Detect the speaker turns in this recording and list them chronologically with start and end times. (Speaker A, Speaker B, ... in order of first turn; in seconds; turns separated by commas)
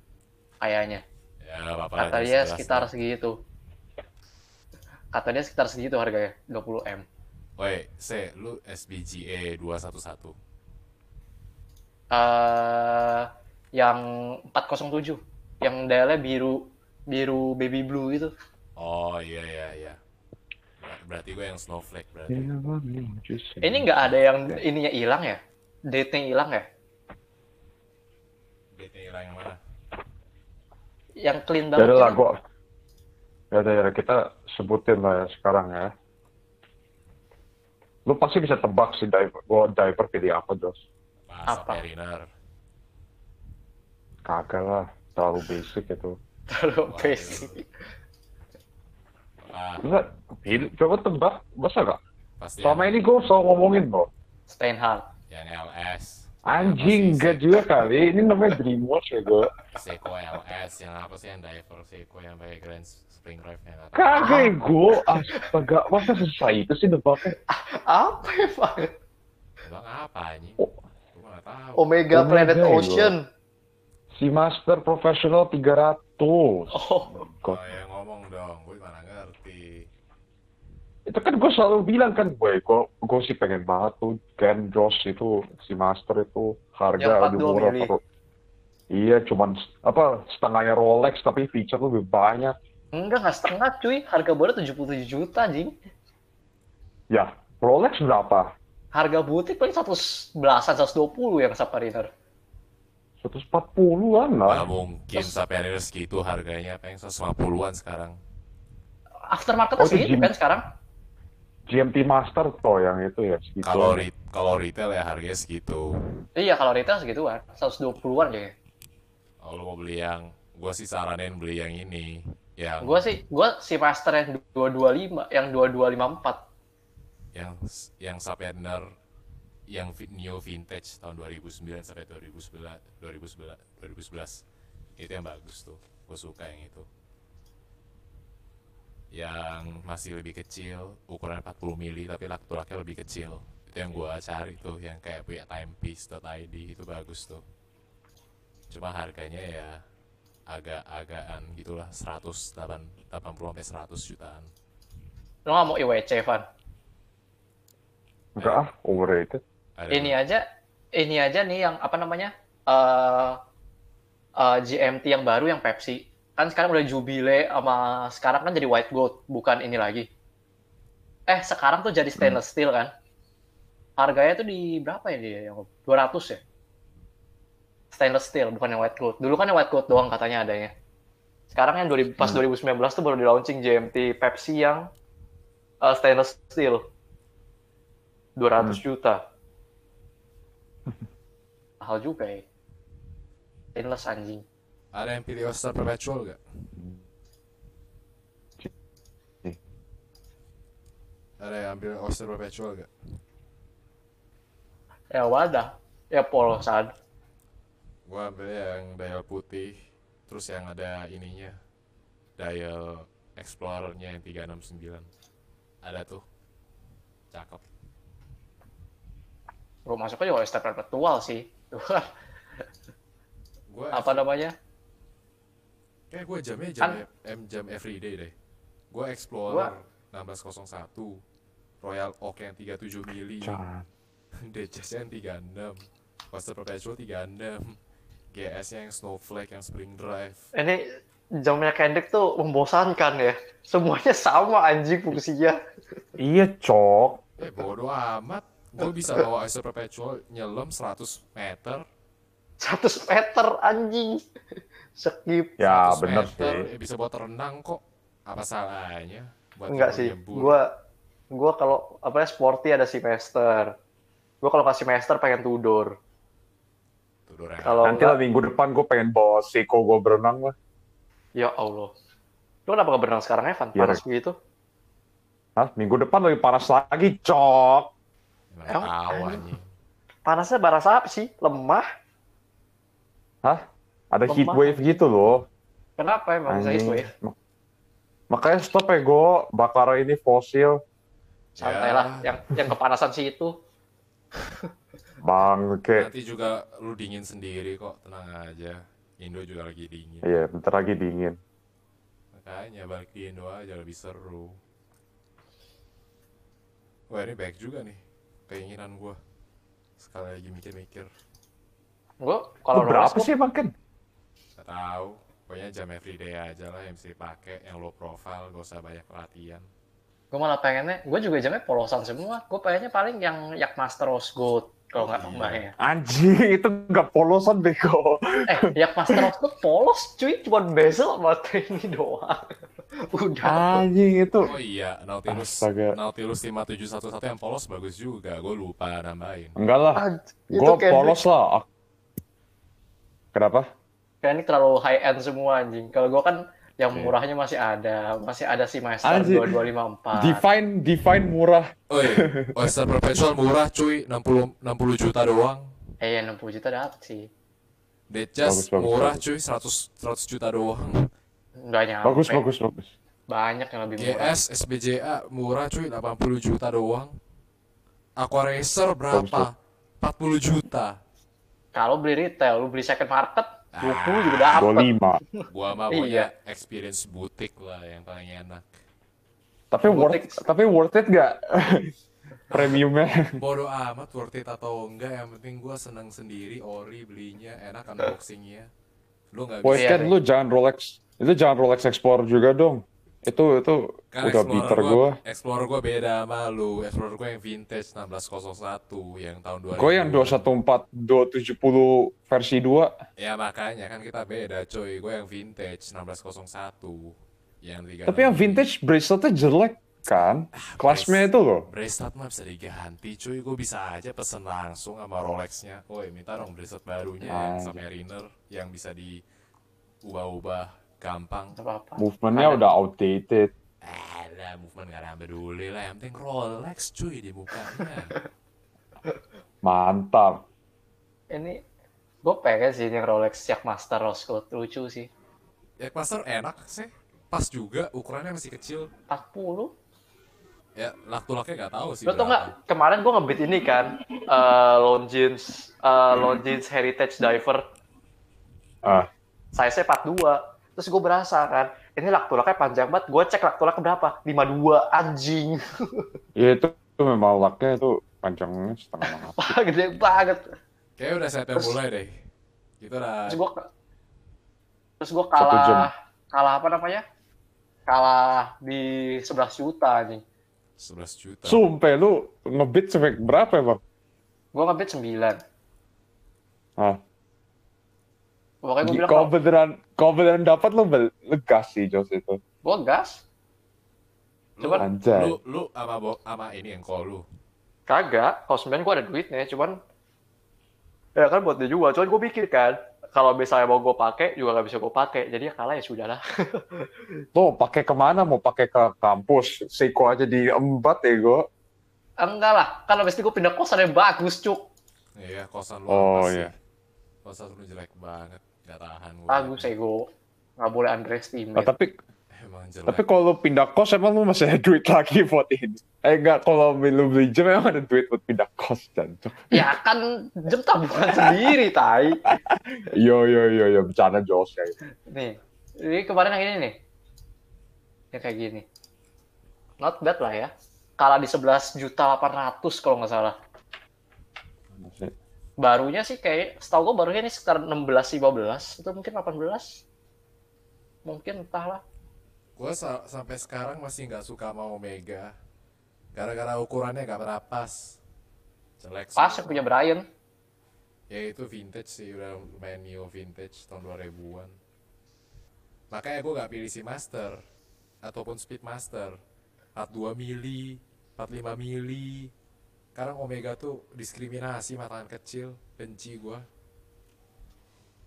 Speaker A: 0.6-1.0, Speaker B: 1.4-2.9, Speaker A: 2.0-3.4, Speaker A: 5.1-7.0, Speaker B: 7.6-10.3, Speaker A: 12.1-18.3, Speaker B: 18.8-20.0, Speaker B: 20.8-22.5, Speaker C: 22.3-23.9, Speaker A: 23.6-26.6, Speaker B: 28.7-29.6, Speaker A: 31.2-32.2, Speaker C: 31.8-32.4, Speaker C: 33.5-35.9, Speaker C: 38.0-40.8, Speaker B: 41.3-42.3, Speaker A: 41.5-41.8, Speaker C: 44.2-46.2, Speaker A: 46.5-47.6, Speaker B: 46.9-47.6, Speaker B: 49.4-49.8, Speaker C: 49.8-52.0, Speaker B: 52.4-53.0, Speaker C: 52.6-54.1, Speaker A: 54.5-55.0, Speaker B: 55.3-57.6, Speaker C: 56.5-59.5, Speaker B: 59.7-64.5, Speaker C: 63.9-67.3, Speaker A: 64.2-65.5, Speaker A: 67.5-68.9, Speaker B: 69.6-71.9, Speaker A: 71.8-73.2, Speaker C: 72.1-73.1, Speaker C: 74.1-77.6, Speaker A: 76.7-77.2, Speaker B: 77.4-79.9, Speaker C: 81.1-88.0, Speaker A: 87.0-87.9, Speaker C: 88.9-92.5, Speaker A: 92.9-95.7, Speaker C: 97.1-98.5, Speaker A: 98.9-102.1, Speaker C: 103.2-104.7, Speaker B: 104.5-108.2, Speaker A: 109.3-110.6, Speaker C: 109.8-110.3, Speaker C: 111.7-114.1, Speaker B: 113.6-115.9, Speaker A: 116.3-118.5, Speaker B: 119.4-123.1, Speaker A: 122.8-126.4, Speaker B: 127.3-128.8, Speaker B: 129.7-134.4, Speaker B: 135.0-136.9, Speaker B: 139.1-147.4, Speaker B: 148.7-149.7, Speaker B: 150.5-154.5, Speaker A: 155.5-156.4, Speaker C: 158.4-159.4, Speaker B: 159.8-160.1, Speaker A: 159.9-160.4, Speaker A: 160.9-163.4, Speaker A: 164.4-170.1, Speaker A: 171.3-172.9, Speaker A: 174.0-176.4, Speaker A: 177.9-180.7, Speaker A: 181.5-184.8, Speaker A: 185.8-186.8, Speaker A: 188.4-189.2, Speaker A: 191.8-192.4, Speaker A: 193.7-194.4, Speaker B: 194.9-196.4, Speaker B: 201.4-202.9, Speaker A: 205.1-206.9, Speaker B: 208.1-209.8, Speaker B: 210.3-211.5, Speaker B: 212.4-215.1, Speaker B: 215.8-216.2, Speaker B: 217.3-217.6, Speaker A: 219.9-222.1, Speaker B: 223.7-224.2, Speaker A: 223.9-224.5, Speaker B: 226.1-228.3, Speaker B: 228.9-231.2, Speaker B: 231.8-233.6, Speaker C: 233.4-233.9, Speaker B: 234.4-237.8, Speaker B: 238.3-240.5, Speaker A: 240.5-245.6, Speaker C: 246.2-247.2, Speaker B: 247.4-251.8, Speaker A: 252.6-254.2, Speaker A: 255.0-255.6, Speaker C: 255.6-256.6, Speaker B: 255.7-260.6, Speaker A: 259.7-260.6, Speaker A: 261.3-263.7, Speaker A: 264.4-265.9, Speaker B: 267.3-268.0, Speaker A: 267.6-268.2, Speaker C: 267.8-270.5, Speaker A: 271.4-271.9, Speaker A: 272.7-274.3, Speaker C: 273.7-274.0, Speaker C: 275.6-277.9, Speaker B: 278.5-279.6, Speaker A: 278.7-279.4, Speaker A: 280.2-281.9, Speaker C: 283.4-285.4, Speaker A: 284.3-285.0, Speaker A: 286.0-287.1, Speaker C: 286.5-287.4, Speaker C: 288.3-290.8, Speaker A: 291.6-293.5, Speaker B: 291.6-292.5, Speaker C: 295.2-296.1, Speaker B: 295.9-300.3, Speaker C: 300.2-301.4, Speaker B: 302.3-304.6, Speaker B: 307.1-309.2, Speaker B: 310.0-311.1, Speaker A: 312.2-313.3, Speaker C: 312.7-313.7, Speaker B: 314.6-319.6, Speaker A: 320.3-325.7, Speaker B: 325.0-325.6, Speaker C: 325.8-329.2, Speaker A: 328.5-332.5, Speaker A: 333.1-333.8, Speaker C: 333.4-334.5, Speaker B: 334.4-339.6, Speaker C: 335.3-335.9, Speaker C: 339.6-341.6, Speaker A: 339.9-341.2, Speaker C: 343.3-343.7, Speaker A: 344.2-350.4, Speaker C: 349.0-349.6, Speaker C: 350.1-352.5, Speaker B: 351.9-355.7, Speaker A: 356.0-357.3, Speaker B: 358.1-361.1, Speaker C: 358.4-359.2, Speaker A: 361.6-362.4, Speaker C: 362.0-362.9, Speaker A: 363.3-364.4, Speaker B: 364.0-367.1, Speaker B: 368.2-371.0, Speaker C: 369.1-369.5, Speaker A: 371.7-374.9, Speaker B: 373.7-374.7, Speaker C: 374.6-375.2, Speaker A: 375.4-376.3, Speaker B: 375.5-378.7, Speaker C: 379.7-381.9, Speaker A: 379.9-380.4, Speaker C: 382.5-383.4, Speaker B: 382.5-382.8, Speaker B: 383.4-388.7, Speaker B: 389.3-390.1, Speaker C: 389.6-395.1, Speaker A: 389.7-390.1, Speaker B: 394.1-400.5, Speaker C: 399.8-402.9, Speaker B: 403.2-408.7, Speaker C: 408.1-411.7, Speaker B: 410.6-419.2, Speaker C: 417.3-417.8, Speaker B: 420.0-421.6, Speaker A: 421.6-422.6, Speaker C: 422.0-423.5, Speaker B: 423.8-428.1, Speaker C: 429.6-430.4, Speaker A: 431.3-431.6, Speaker A: 432.2-435.1, Speaker B: 435.8-438.9, Speaker A: 439.1-439.7, Speaker B: 440.8-442.5, Speaker A: 442.1-447.6, Speaker C: 448.8-449.1, Speaker A: 449.5-456.0, Speaker C: 456.4-459.5, Speaker A: 459.0-460.5, Speaker B: 461.0-462.1, Speaker B: 462.8-463.4, Speaker A: 463.3-463.7, Speaker A: 465.0-467.0, Speaker C: 465.4-465.9, Speaker A: 467.9-470.2, Speaker B: 470.8-471.6, Speaker C: 471.4-473.8, Speaker A: 474.5-475.4, Speaker A: 478.6-479.3, Speaker C: 478.8-482.4, Speaker A: 482.6-483.2, Speaker B: 484.6-487.2, Speaker A: 484.6-484.9, Speaker C: 484.8-485.4, Speaker A: 487.9-489.8, Speaker A: 491.2-496.9, Speaker C: 497.3-501.4, Speaker A: 502.2-504.6, Speaker B: 505.2-506.5, Speaker C: 505.9-506.5, Speaker B: 507.2-509.7, Speaker A: 509.3-510.1, Speaker A: 510.6-511.7, Speaker C: 511.6-511.9, Speaker B: 512.3-513.0, Speaker C: 512.9-519.7, Speaker A: 519.5-522.2, Speaker C: 522.2-524.8, Speaker A: 525.1-526.7, Speaker A: 528.1-528.6, Speaker A: 529.8-533.3, Speaker C: 534.8-535.1, Speaker A: 535.6-539.8, Speaker A: 541.0-541.8, Speaker B: 542.6-545.3, Speaker B: 546.1-547.9, Speaker B: 548.8-549.6, Speaker A: 549.2-550.0, Speaker B: 551.1-554.5, Speaker B: 555.9-557.4, Speaker B: 558.0-559.1, Speaker B: 559.7-562.3, Speaker B: 562.9-566.4